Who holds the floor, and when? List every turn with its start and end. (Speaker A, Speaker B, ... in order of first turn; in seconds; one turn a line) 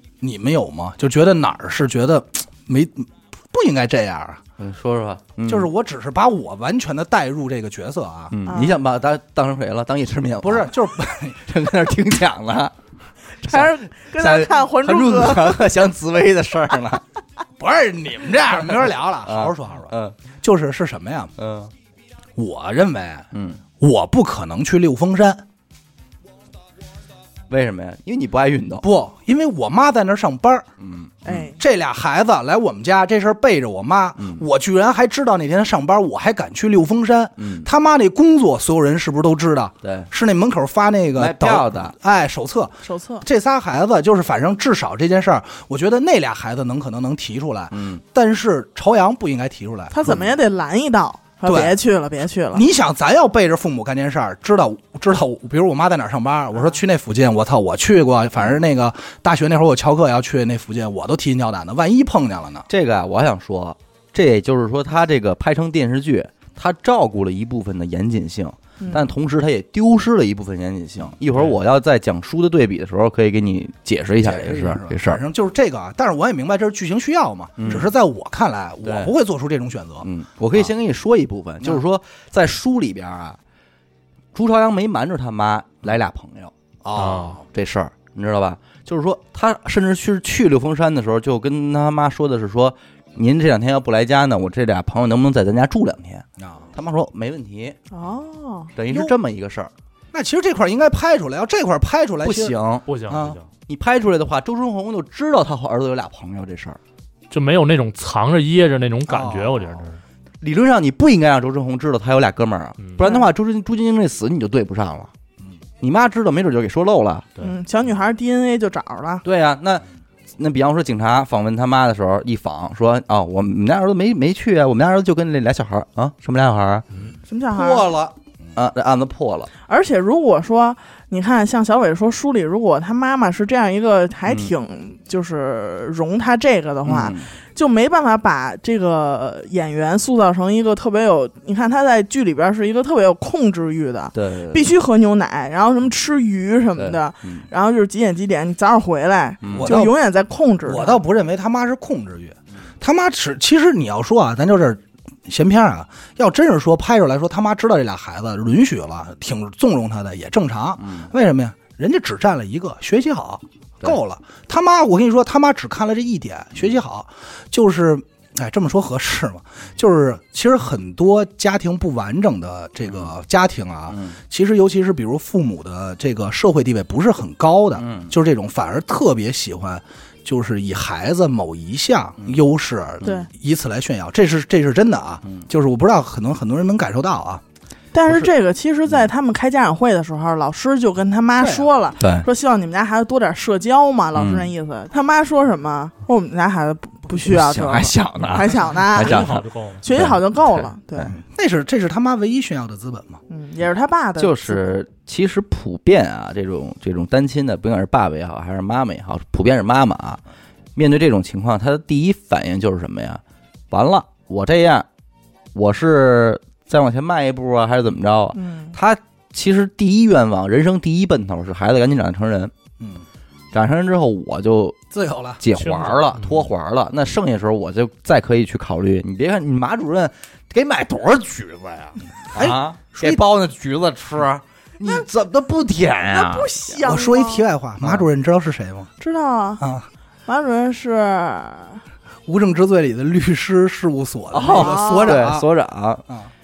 Speaker A: 0.2-4.4
Speaker B: 4.6-5.7
Speaker A: 5.5-8.3
Speaker B: 8.3-10.8
Speaker C: 8.4-8.8
Speaker A: 10.4-11.5
Speaker B: 11.4-12.7
Speaker C: 13.4-15.6
Speaker B: 13.4-17.0
Speaker A: 17.6-21.3
Speaker B: 19.2-20.1
Speaker B: 21.4-21.7
Speaker A: 22.4-23.3
Speaker B: 23.3-23.6
Speaker A: 23.8-25.4
Speaker B: 27.5-28.9
Speaker A: 28.8-30.7
Speaker B: 30.8-31.4
Speaker C: 31.2-31.6
Speaker A: 31.3-50.2
Speaker B: 34.2-34.4
Speaker B: 37.4-37.7
Speaker B: 39.8-40.1
Speaker B: 41.2-41.9
Speaker C: 42.8-43.2
Speaker B: 47.7-48.0
Speaker C: 49.9-52.6
Speaker A: 51.4-51.8
Speaker A: 52.5-62.7
Speaker B: 62.7-75.2
Speaker C: 68.8-69.1
Speaker A: 74.2-80.7
Speaker B: 77.6-77.9
Speaker B: 78.8-79.1
Speaker B: 80.0-83.4
Speaker B: 84.3-86.5
Speaker A: 86.8-87.4
Speaker D: 87.0-87.4
Speaker B: 87.4-97.8
Speaker A: 96.4-96.7
Speaker C: 97.9-98.7
Speaker B: 98.8-99.7
Speaker A: 98.9-99.1
Speaker A: 100.1-103.4
Speaker B: 102.2-102.8
Speaker D: 102.9-103.5
Speaker B: 103.7-106.8
Speaker D: 107.3-110.0
Speaker A: 109.0-109.8
Speaker B: 110.4-115.1
Speaker C: 113.0-113.3
Speaker B: 115.8-117.3
Speaker C: 117.4-119.2
Speaker B: 119.2-119.8
Speaker B: 120.4-126.8
Speaker C: 127.3-127.9
Speaker B: 127.5-129.5
Speaker C: 129.7-151.0
Speaker B: 134.3-134.5
Speaker B: 136.8-137.3
Speaker B: 144.1-144.7
Speaker B: 146.8-147.4
Speaker B: 149.4-149.8
Speaker A: 149.5-149.9
Speaker A: 150.6-187.4
Speaker B: 160.8-161.1
Speaker B: 173.9-174.2
Speaker B: 177.7-178.1
Speaker C: 183.0-183.3
Speaker C: 187.9-201.1
Speaker A: 191.4-191.7
Speaker B: 192.0-192.2
Speaker B: 194.1-194.5
Speaker B: 197.2-201.1
Speaker D: 198.9-199.8
Speaker A: 201.1-203.2
Speaker C: 203.3-204.7
Speaker B: 204.2-210.2
Speaker B: 210.8-214.8
Speaker B: 215.5-222.5
Speaker C: 218.3-218.8
Speaker A: 222.8-223.0
Speaker B: 223.5-224.8
Speaker A: 224.9-225.4
Speaker B: 225.4-236.7
Speaker D: 225.5-226.5
Speaker A: 232.3-233.2
Speaker C: 236.1-237.4
Speaker A: 236.8-238.9
Speaker C: 239.0-239.6
Speaker A: 239.6-239.9
Speaker C: 240.3-241.8
Speaker A: 242.2-245.5
Speaker B: 244.3-246.0
Speaker C: 244.4-245.2